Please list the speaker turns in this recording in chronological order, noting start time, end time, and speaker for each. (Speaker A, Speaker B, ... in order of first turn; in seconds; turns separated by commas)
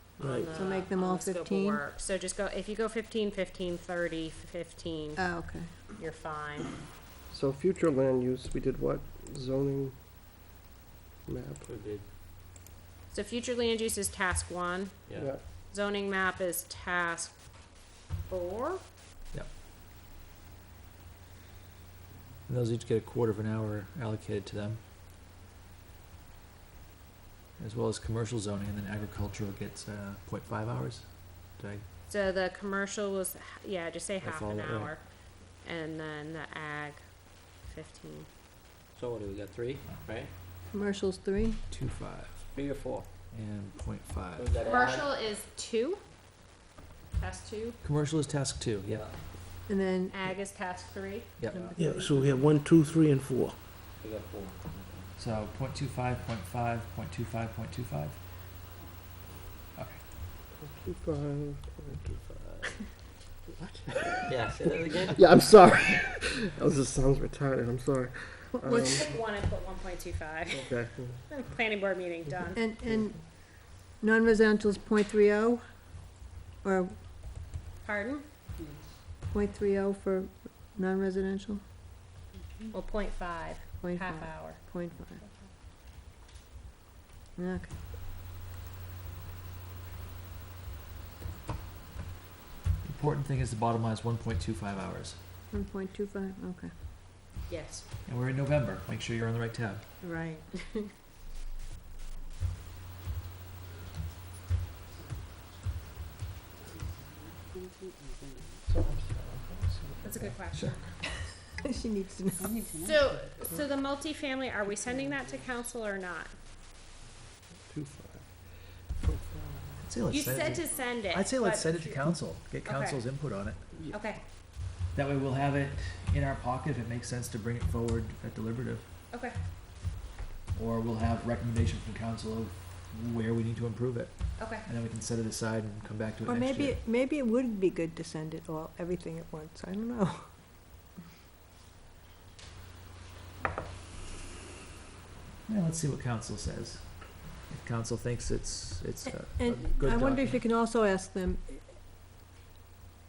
Speaker A: 0.2-5.2, Speaker B: 0.2-0.7, Speaker C: 0.5-1.8, Speaker C: 5.2-5.7, Speaker A: 6.0-6.7, Speaker D: 7.3-9.9, Speaker D: 11.3-11.6, Speaker E: 11.7-12.1, Speaker A: 13.1-14.9, Speaker E: 15.1-15.4, Speaker D: 15.1-15.4, Speaker A: 15.7-17.4, Speaker A: 18.3-18.8, Speaker F: 22.5-24.8, Speaker F: 27.6-31.8, Speaker A: 32.1-35.0, Speaker F: 34.2-34.9, Speaker A: 35.6-37.0, Speaker A: 37.6-38.3, Speaker E: 38.9-40.3, Speaker C: 40.7-41.6, Speaker F: 41.7-42.5, Speaker E: 42.5-43.1, Speaker F: 43.3-44.5, Speaker E: 44.4-45.1, Speaker A: 44.6-46.0, Speaker A: 47.2-47.8, Speaker F: 47.8-49.0, Speaker E: 48.8-49.2, Speaker C: 49.7-50.2, Speaker A: 50.1-51.4, Speaker F: 51.4-51.7, Speaker B: 51.7-53.6, Speaker E: 54.0-55.1, Speaker F: 55.2-58.2, Speaker F: 59.8-60.0, Speaker D: 60.6-62.2, Speaker E: 62.3-62.7, Speaker D: 63.5-69.1, Speaker E: 64.3-65.3, Speaker C: 68.5-69.1, Speaker A: 68.7-70.7, Speaker D: 70.5-71.2, Speaker A: 71.3-72.6, Speaker C: 72.5-73.2, Speaker C: 74.0-75.6, Speaker C: 76.6-76.9, Speaker A: 77.8-78.2, Speaker C: 79.3-81.6, Speaker A: 82.7-84.6, Speaker C: 83.8-85.2, Speaker C: 87.4-87.8, Speaker F: 92.8-95.2, Speaker C: 95.5-96.7, Speaker A: 97.5-97.8, Speaker F: 98.1-99.8, Speaker C: 100.0-100.9, Speaker D: 108.7-110.4, Speaker A: 110.0-110.8, Speaker C: 111.1-112.6, Speaker A: 112.8-116.3, Speaker D: 117.7-119.8, Speaker F: 119.8-123.6, Speaker A: 120.1-122.0, Speaker A: 122.6-123.0, Speaker A: 123.9-124.2, Speaker F: 124.9-128.9, Speaker A: 129.1-129.4, Speaker F: 130.6-136.8, Speaker A: 134.4-134.7, Speaker C: 136.2-140.3, Speaker F: 145.5-146.9, Speaker F: 147.5-150.4, Speaker C: 149.1-151.6